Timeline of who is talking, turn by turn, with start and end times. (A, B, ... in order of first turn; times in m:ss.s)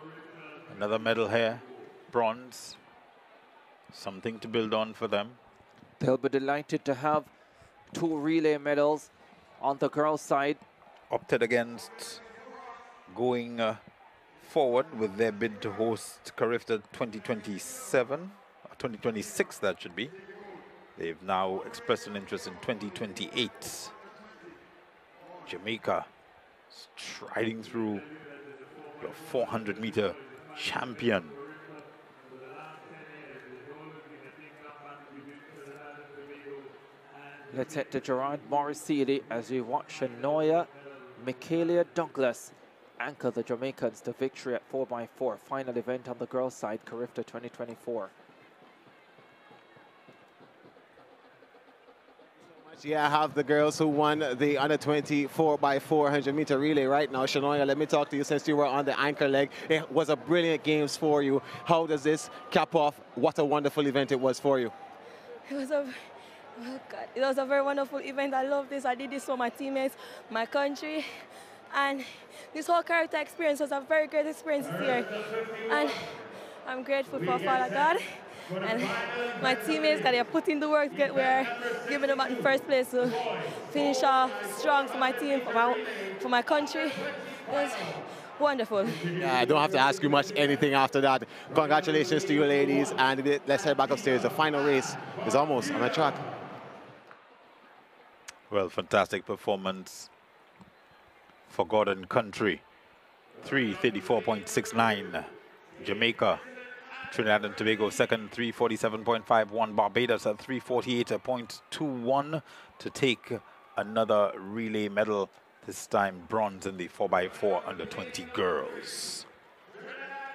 0:00.7-0:02.8 A
0:03.9-0:05.4 A
0:06.0-0:07.3 B
0:07.9-0:10.6 B
0:11.1-0:12.2 A
0:13.1-0:13.8 A
0:14.4-0:20.2 A
0:21.0-0:23.9 A
0:25.5-0:26.1 A
0:26.7-0:28.1 A
0:29.0-0:31.4 A
0:37.5-0:48.1 B
0:52.6-1:04.7 C
1:05.5-1:06.0 D
1:06.6-1:11.1 D
1:11.7-1:29.1 D
1:29.2-1:36.2 C
1:38.5-1:40.1 A
1:41.5-1:42.6 A
1:43.4-1:46.4 A
1:47.1-1:59.3 A